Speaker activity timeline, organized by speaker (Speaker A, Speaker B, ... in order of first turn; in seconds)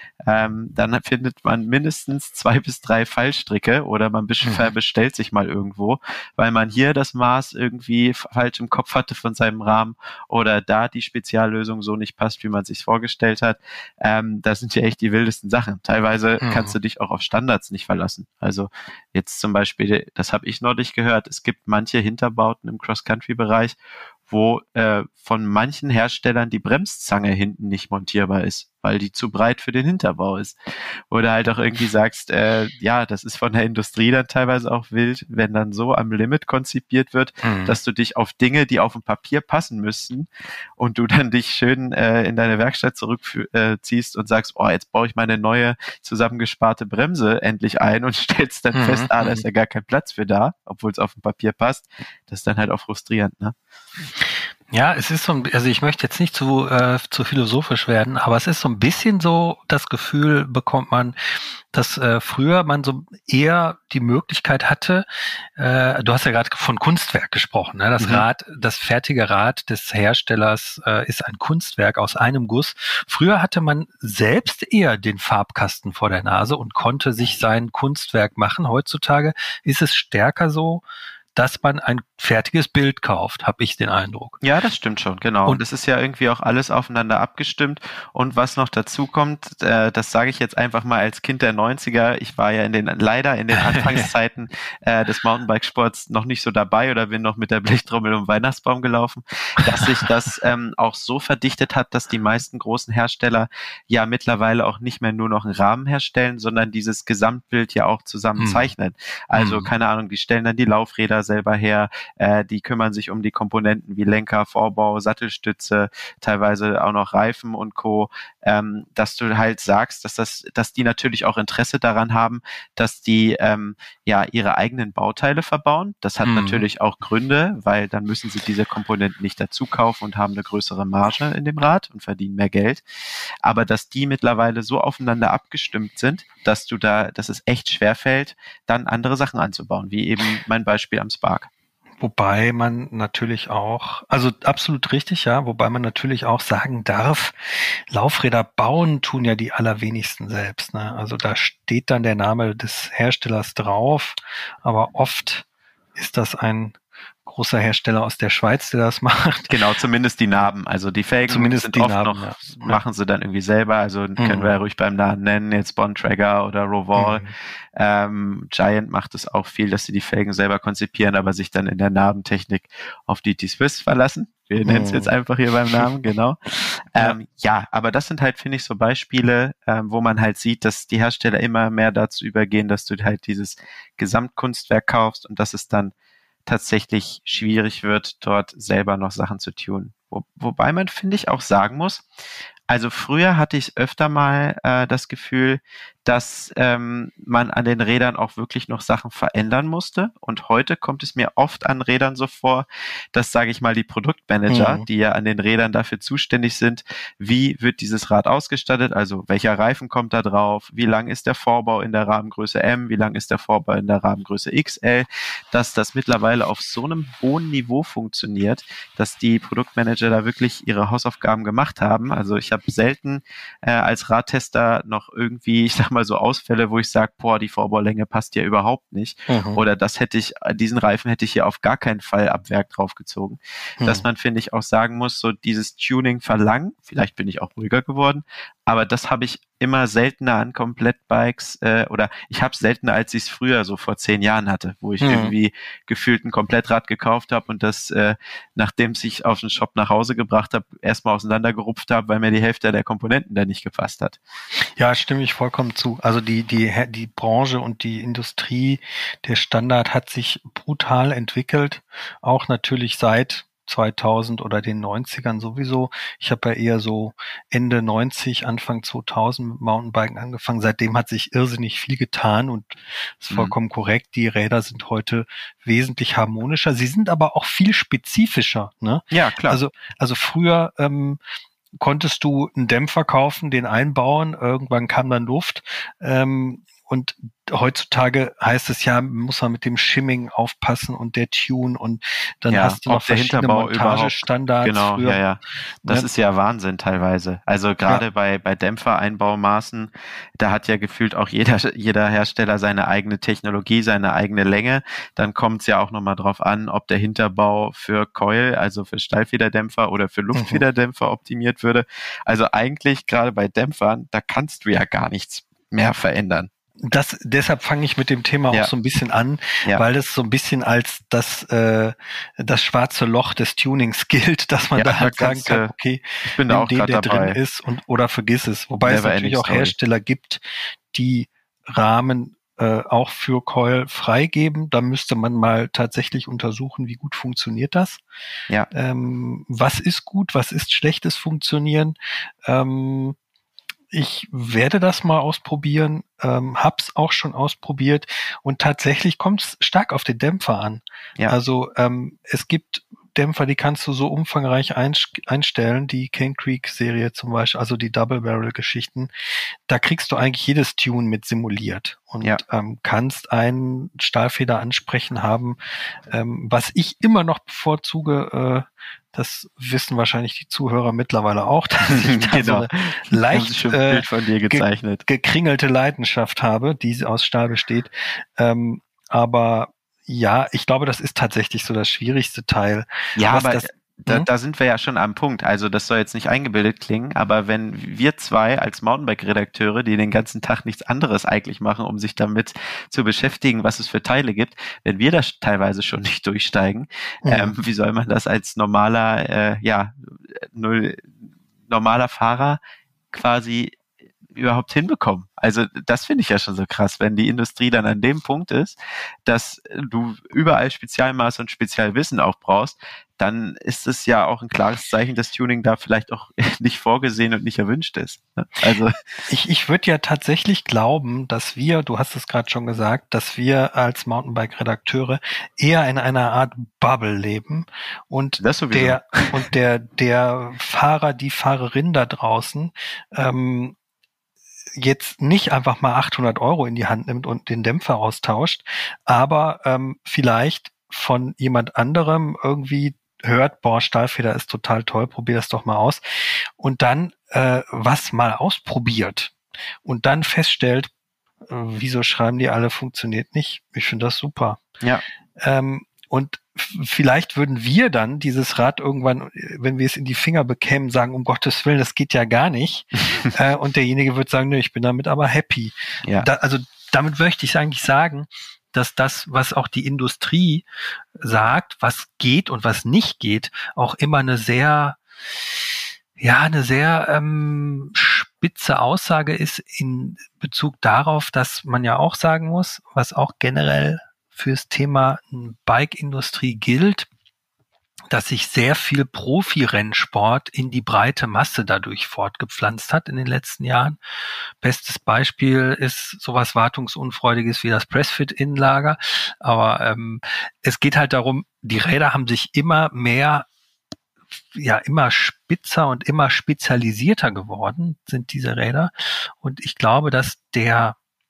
Speaker A: 0.2-53.5, 84.4-132.8, 133.4-141.5, 159.5-185.9, 186.4-192.1, 192.7-254.2, 279.1-279.6, 292.5-316.5, 324.8-325.7, 326.2-327.4, 328.8-329.8, 371.9-375.0, 383.1-402.6, 403.1-403.8, 404.3-418.9, 428.4-429.4
Speaker B: 4.4-4.7, 16.4-16.8, 37.4-37.8, 48.7-49.4, 54.7-65.0, 65.6-80.8, 81.3-84.4, 93.5-94.0, 108.4-108.7, 109.3-109.7, 126.2-126.7, 142.0-159.5, 161.3-162.8, 164.2-164.5, 166.9-167.3, 174.6-175.1, 204.5-204.8, 229.3-229.6, 233.8-234.0, 245.0-245.3, 254.8-281.2, 281.8-296.1, 310.3-310.6, 316.8-338.0, 338.7-341.9, 342.5-343.1, 343.9-359.1, 359.7-365.6, 366.1-384.3, 397.2-397.5, 419.3-433.8, 434.8-450.9, 451.5-454.6, 455.4-470.6, 471.2-475.0, 476.2-487.1, 488.1-494.0, 494.6-503.5, 504.5-511.0